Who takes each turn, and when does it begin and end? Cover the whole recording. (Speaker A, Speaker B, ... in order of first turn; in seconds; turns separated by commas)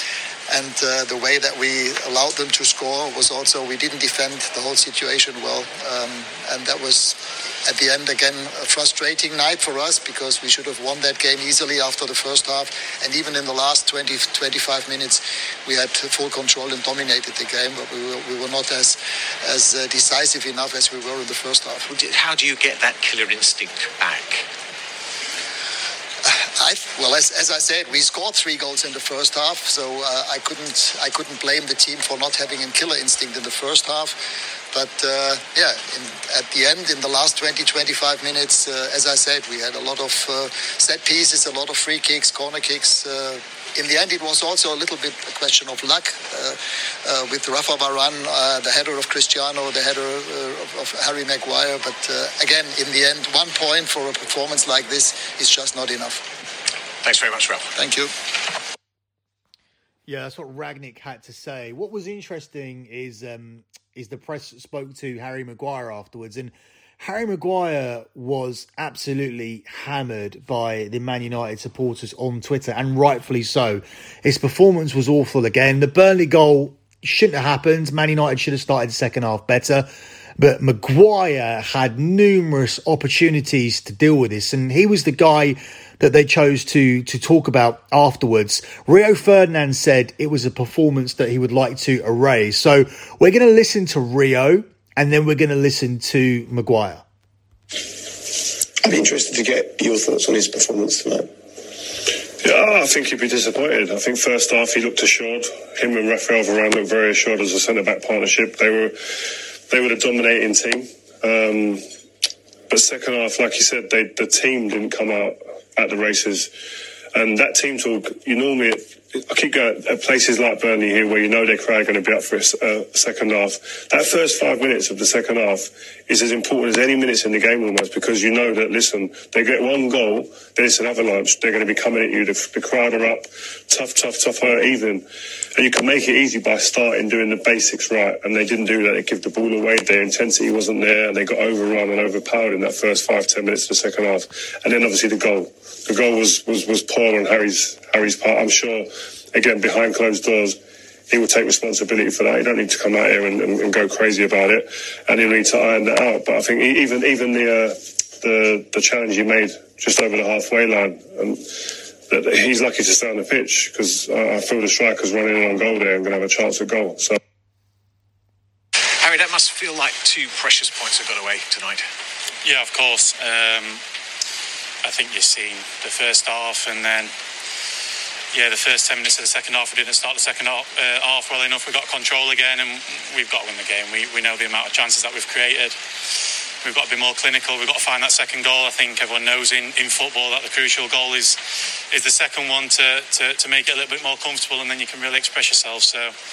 Speaker A: 0.5-21.9, Speaker B: 21.9-24.4, Speaker A: 26.2-34.1, Speaker A: 34.7-56.3, Speaker B: 57.0-57.7, Speaker A: 57.8-58.1, Speaker C: 60.1-97.0, Speaker D: 98.8-101.3, Speaker E: 102.4-109.0, Speaker E: 109.7-111.8, Speaker E: 112.7-116.5, Speaker E: 117.1-135.0, Speaker E: 135.6-150.6, Speaker E: 151.1-161.4, Speaker E: 162.1-167.2, Speaker B: 169.0-171.8, Speaker F: 172.4-173.8, Speaker F: 174.8-177.1, Speaker F: 178.3-185.8, Speaker F: 186.6-191.4, Speaker F: 191.9-196.1